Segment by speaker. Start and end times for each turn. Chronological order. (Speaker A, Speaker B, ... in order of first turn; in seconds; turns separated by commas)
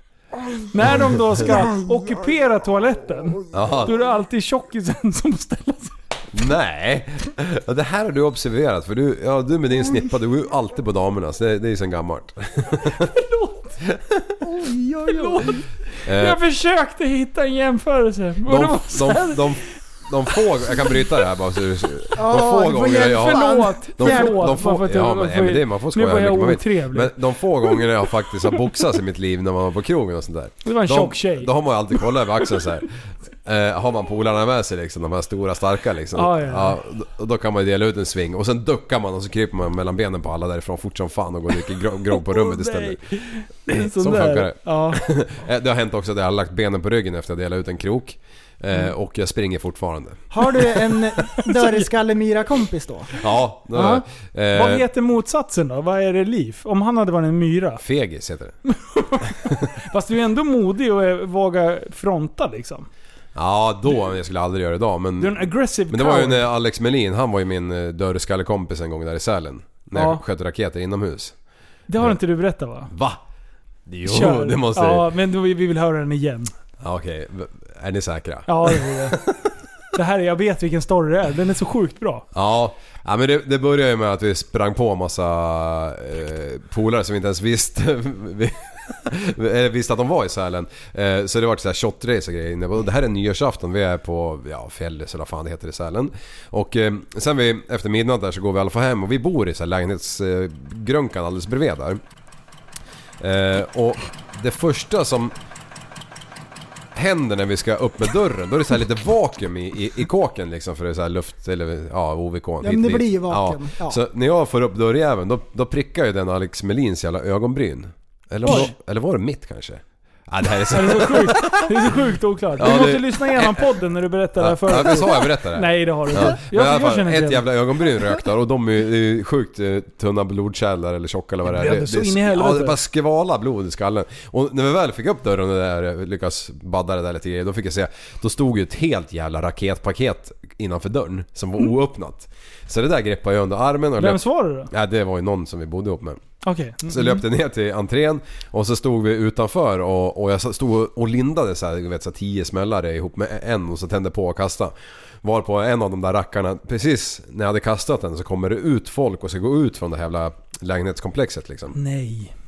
Speaker A: 0.7-5.9, Speaker B: 3.5-3.9, Speaker B: 6.3-13.1, Speaker A: 13.0-13.8, Speaker B: 13.8-14.2, Speaker C: 14.4-15.6, Speaker A: 15.1-19.6, Speaker B: 16.1-16.4, Speaker B: 18.4-43.0, Speaker C: 22.1-24.6, Speaker A: 23.1-27.1, Speaker A: 30.6-31.5, Speaker A: 36.1-36.8, Speaker A: 42.1-45.0, Speaker B: 43.7-50.2, Speaker C: 50.3-53.2, Speaker B: 53.2-54.9, Speaker C: 53.8-54.0, Speaker A: 54.5-57.8, Speaker B: 57.8-58.5, Speaker A: 58.7-62.9, Speaker B: 63.3-71.3, Speaker A: 65.2-66.4, Speaker A: 69.9-70.2, Speaker A: 71.9-72.9, Speaker B: 72.9-73.2, Speaker B: 73.9-75.1, Speaker A: 74.0-76.5, Speaker B: 76.8-79.5, Speaker A: 78.5-79.2, Speaker A: 79.9-82.2, Speaker B: 82.3-102.0, Speaker B: 103.2-105.3, Speaker B: 106.9-122.0, Speaker C: 112.6-114.0, Speaker A: 118.4-118.7, Speaker A: 120.7-127.4, Speaker B: 122.6-123.8, Speaker B: 124.4-146.2, Speaker A: 131.4-132.8, Speaker A: 144.0-144.7, Speaker A: 146.4-147.2, Speaker B: 146.8-161.8, Speaker A: 161.7-162.3